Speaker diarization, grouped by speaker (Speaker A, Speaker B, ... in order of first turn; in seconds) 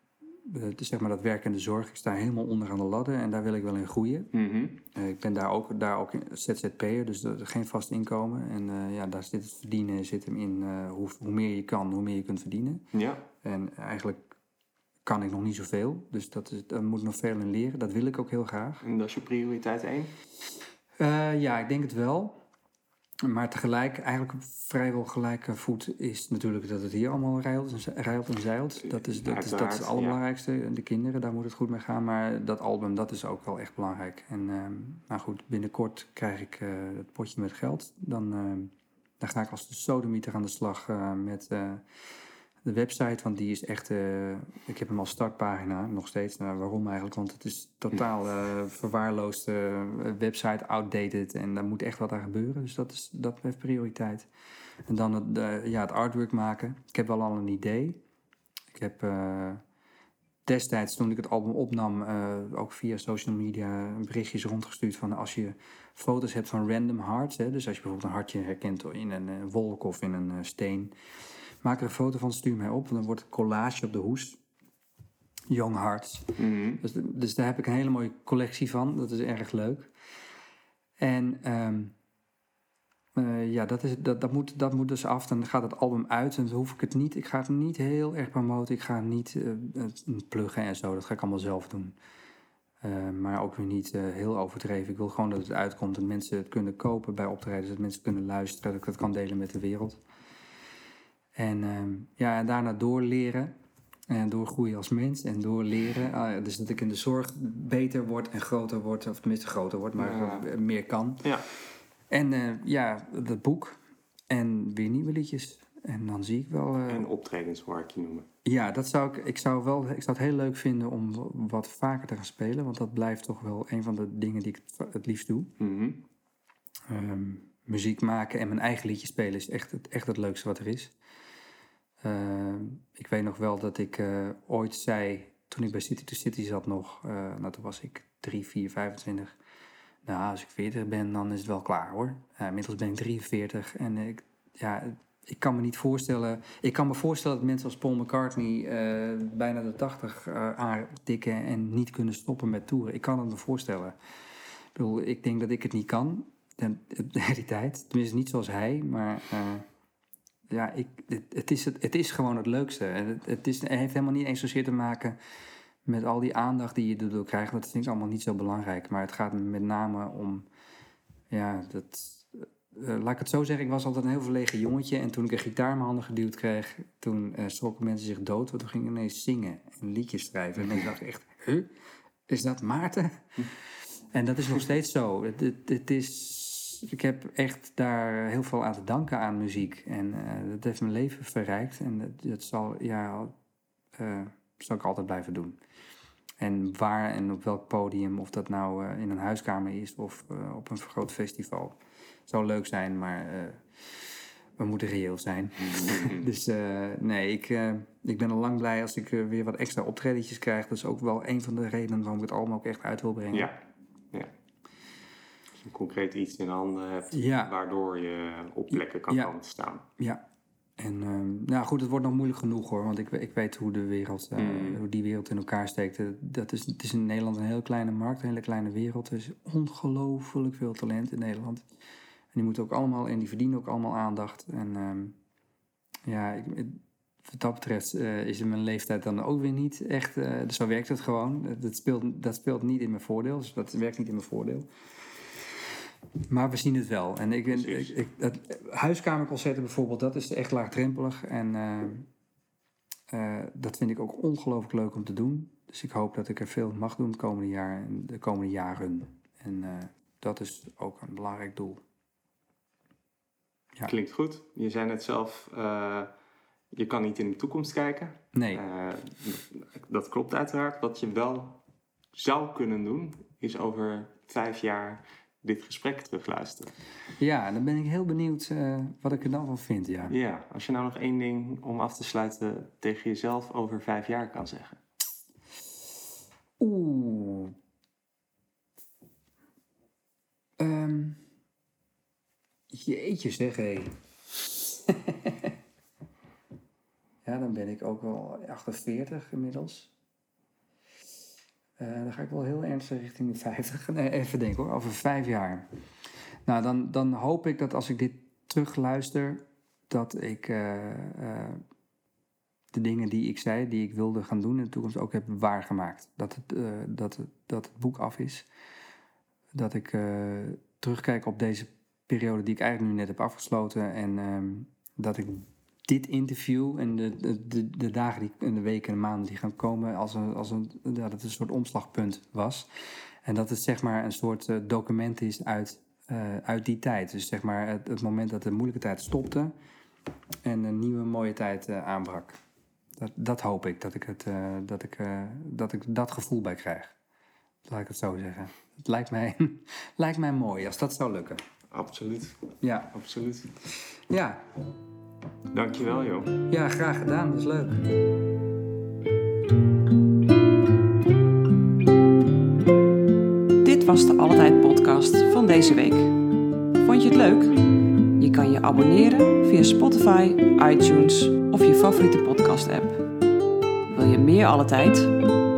Speaker A: 0.5-4.3, 4.9-12.8, 13.4-14.3, 15.1-18.8, 21.0-22.4, 23.2-41.8, 42.6-54.3, 54.9-58.0, 58.7-59.6, 60.5-70.9, 71.6-74.4, 75.5-79.9, 81.0-82.0, 83.2-92.0, 92.8-100.0, 101.4-103.5, 104.1-111.4, 112.1-113.8, 114.3-117.1, 118.5-125.5, 126.9-130.9, 132.0-139.4, 140.1-154.0, 154.8-159.7, 160.5-165.2, 165.8-170.4, 171.3-181.7, 182.3-193.3, 194.0-195.6, 196.4-203.6, 204.6-213.5, 217.1-217.5, 220.0-220.2, 220.8-231.6, 232.3-235.2, 236.1-244.7, 246.3-252.1, 253.1-261.8, 268.3-268.6, 277.2-280.1, 286.6-287.6, 290.6-291.2, 292.7-295.6, 297.2-299.9, 301.8-305.7, 306.5-311.6, 312.7-318.5, 319.5-332.7, 333.2-339.5, 340.4-342.4, 343.0-346.9, 347.7-351.4, 352.6-352.9, 354.1-354.4, 356.5-357.9
Speaker B: 4.3-4.8, 12.9-13.2, 18.8-20.1, 28.8-30.2, 76.4-76.8, 110.0-110.5, 116.9-118.3, 125.6-126.0, 205.7-206.2, 215.6-219.8, 224.4-224.8, 247.5-248.0, 263.9-266.1, 266.7-271.6, 272.1-276.7, 280.1-284.8, 351.7-353.5, 355.5-356.4
Speaker C: 363.6-366.1, 366.8-367.6, 368.2-373.0, 373.9-375.1